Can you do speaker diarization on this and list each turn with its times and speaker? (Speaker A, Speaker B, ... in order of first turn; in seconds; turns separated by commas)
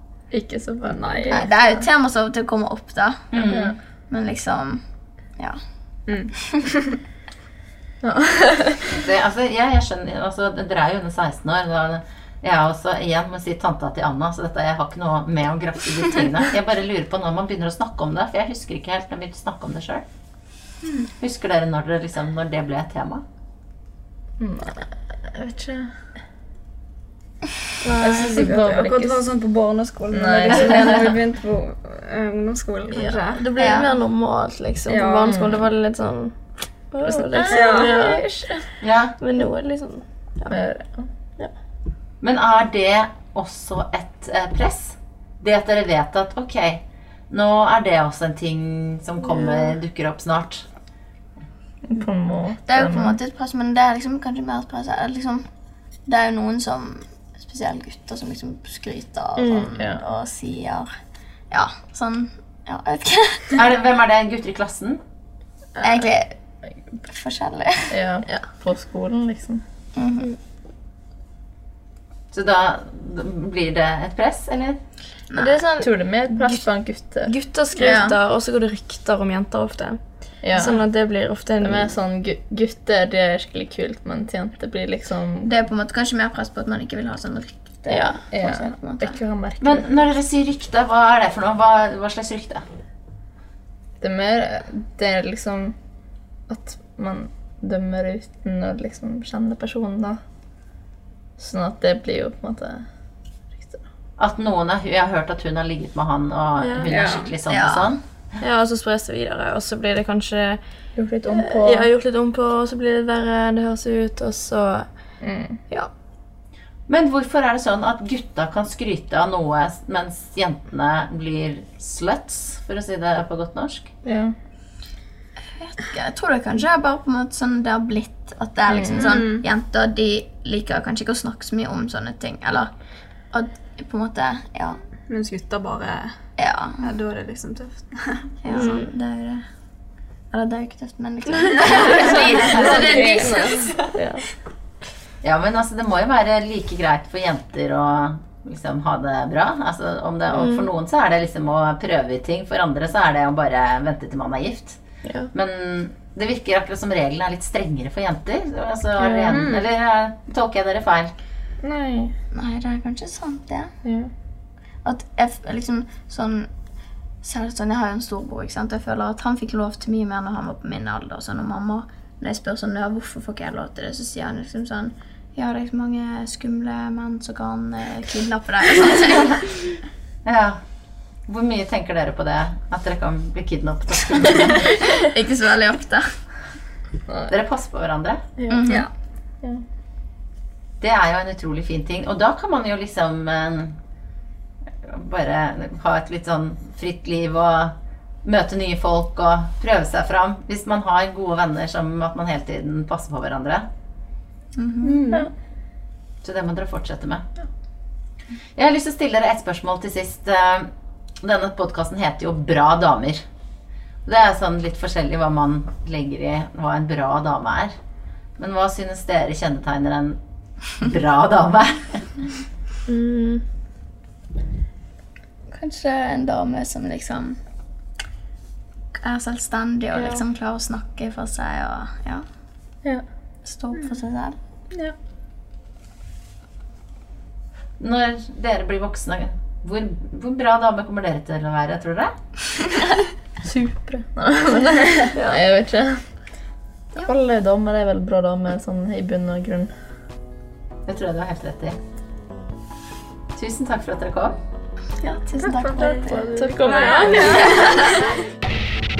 Speaker A: 0.3-1.9, Speaker B: 0.9-1.4, Speaker C: 1.3-3.5, Speaker D: 3.3-3.8, Speaker A: 3.5-3.8, Speaker C: 4.0-4.8, Speaker A: 8.0-9.0, Speaker D: 8.9-20.1, Speaker B: 20.8-21.1, Speaker D: 21.2-23.2, Speaker A: 24.4-25.9, Speaker E: 27.8-28.6, Speaker A: 28.0-29.2, Speaker B: 28.2-33.5, Speaker A: 30.1-31.2, Speaker E: 33.3-40.7, Speaker C: 33.6-33.9, Speaker B: 34.9-35.3, Speaker A: 35.3-35.6, Speaker A: 37.0-38.2, Speaker B: 37.5-37.9, Speaker D: 38.8-39.1, Speaker A: 40.5-41.1, Speaker D: 42.2-50.7, Speaker A: 51.9-53.2, Speaker C: 52.7-55.5, Speaker C: 56.0-60.9, Speaker E: 59.4-59.7, Speaker A: 59.7-60.0, Speaker C: 61.5-63.6, Speaker D: 63.5-65.0, Speaker A: 65.8-66.1, Speaker C: 65.8-66.4, Speaker C: 67.0-68.0, Speaker A: 67.9-69.6, Speaker C: 70.0-70.4, Speaker D: 72.3-74.8, Speaker C: 75.3-75.7, Speaker E: 75.3-81.9, Speaker A: 75.8-78.1, Speaker C: 77.8-78.1, Speaker A: 80.4-80.9, Speaker A: 81.6-85.5, Speaker C: 85.5-89.2, Speaker A: 87.9-89.9, Speaker D: 89.6-92.7, Speaker A: 94.0-95.8, Speaker A: 96.5-100.2, Speaker A: 101.4-102.9, Speaker A: 103.6-103.8, Speaker D: 104.2-108.0, Speaker E: 106.6-106.9, Speaker B: 106.9-107.3, Speaker C: 107.5-108.0, Speaker E: 108.4-110.6, Speaker A: 111.0-111.9, Speaker E: 111.3-114.9, Speaker A: 115.2-115.6, Speaker D: 116.9-123.9, Speaker A: 124.0-124.3, Speaker C: 125.4-132.7, Speaker A: 128.7-129.2, Speaker B: 128.9-129.5, Speaker C: 133.3-134.8, Speaker B: 135.1-136.1, Speaker C: 136.4-136.9, Speaker B: 136.8-138.8, Speaker C: 138.4-139.4, Speaker E: 138.5-138.8, Speaker C: 140.3-143.8, Speaker B: 141.7-143.8, Speaker D: 141.7-143.3, Speaker A: 142.1-144.2, Speaker D: 145.2-154.8, Speaker E: 150.3-150.7, Speaker E: 155.0-155.3, Speaker D: 155.3-161.1, Speaker B: 159.3-159.7, Speaker A: 161.6-162.2, Speaker C: 162.3-163.7, Speaker A: 163.8-164.1, Speaker C: 164.8-166.5, Speaker C: 167.2-179.5, Speaker D: 180.2-180.6, Speaker D: 181.3-184.7, Speaker C: 184.8-186.1, Speaker A: 187.1-187.3, Speaker D: 187.3-188.2, Speaker C: 188.5-188.9, Speaker D: 190.8-193.8, Speaker D: 194.8-203.7, Speaker C: 204.6-205.1, Speaker A: 204.8-205.3, Speaker D: 206.2-207.2, Speaker D: 208.6-210.7, Speaker D: 211.2-213.2, Speaker D: 214.1-217.8, Speaker D: 218.4-220.2, Speaker D: 220.7-222.1, Speaker E: 222.9-223.4, Speaker C: 225.5-227.4, Speaker C: 228.9-232.3, Speaker E: 229.9-230.2, Speaker C: 233.4-234.4, Speaker D: 237.8-242.1, Speaker A: 243.4-246.1, Speaker E: 245.2-245.4, Speaker A: 246.9-249.7, Speaker D: 250.9-251.8, Speaker D: 253.4-254.4, Speaker C: 255.0-256.4, Speaker B: 255.4-258.1, Speaker A: 255.8-258.0, Speaker E: 256.6-257.8